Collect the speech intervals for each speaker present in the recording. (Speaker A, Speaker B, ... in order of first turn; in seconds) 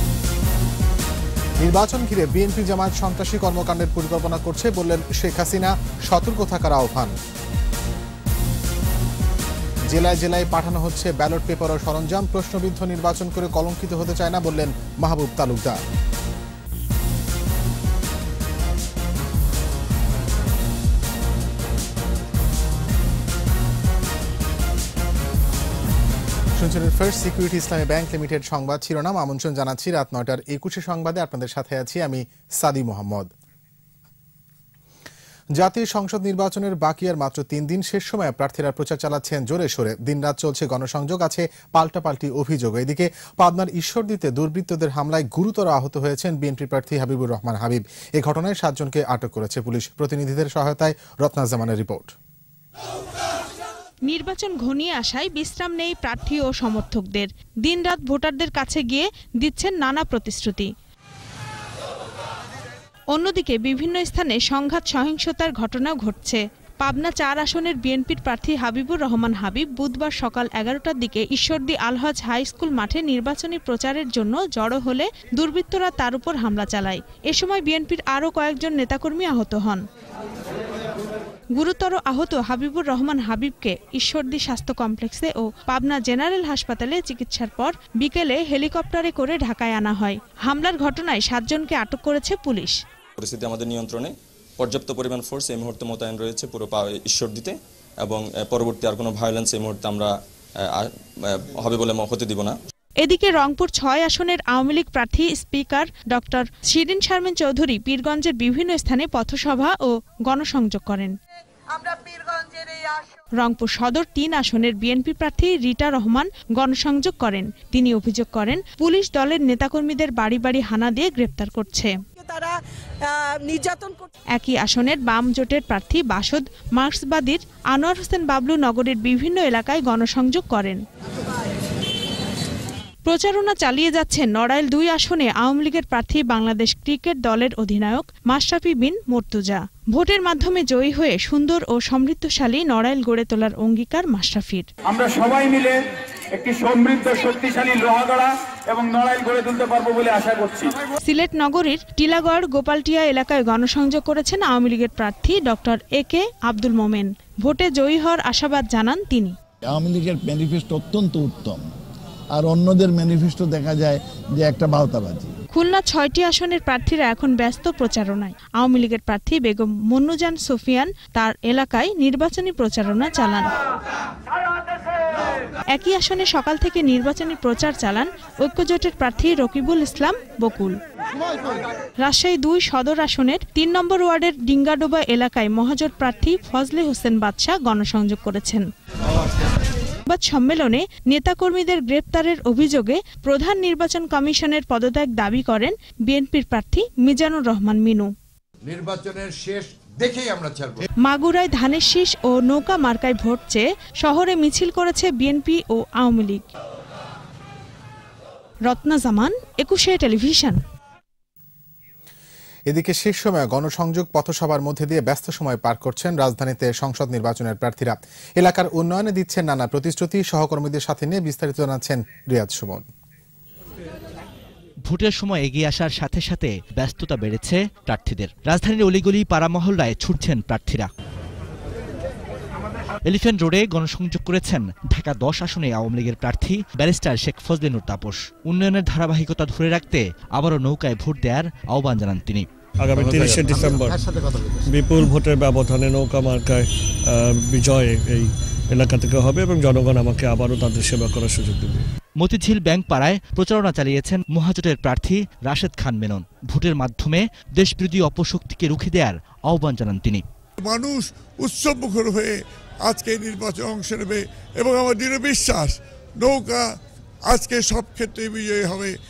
Speaker A: 1.6-7.2, 9.9-15.8, 26.6-33.3, 35.6-52.1, 212.7-222.9
Speaker B: 54.1-60.7, 63.1-79.8, 81.6-92.8, 103.0-111.2, 113.4-122.0, 124.3-130.8, 133.1-144.7, 151.0-159.4, 165.5-173.5, 175.7-180.8, 182.0-188.7, 190.1-198.1, 201.0-206.5, 208.7-210.6
Speaker C: 93.2-100.1, 100.7-102.5
Speaker D: 111.8-113.0, 122.2-122.5, 123.1-124.1, 144.9-145.7, 146.4-150.7
Speaker E: 159.7-161.6, 162.4-165.3
Speaker F: 159.8-161.5, 162.4-163.9, 164.4-165.2, 198.7-200.8, 242.9-244.8
Speaker G: 224.9-230.9, 233.1-242.5, 252.2-260.2
Speaker H: 242.8-244.0, 244.6-251.9
Speaker I: 260.6-266.6, 267.3-268.9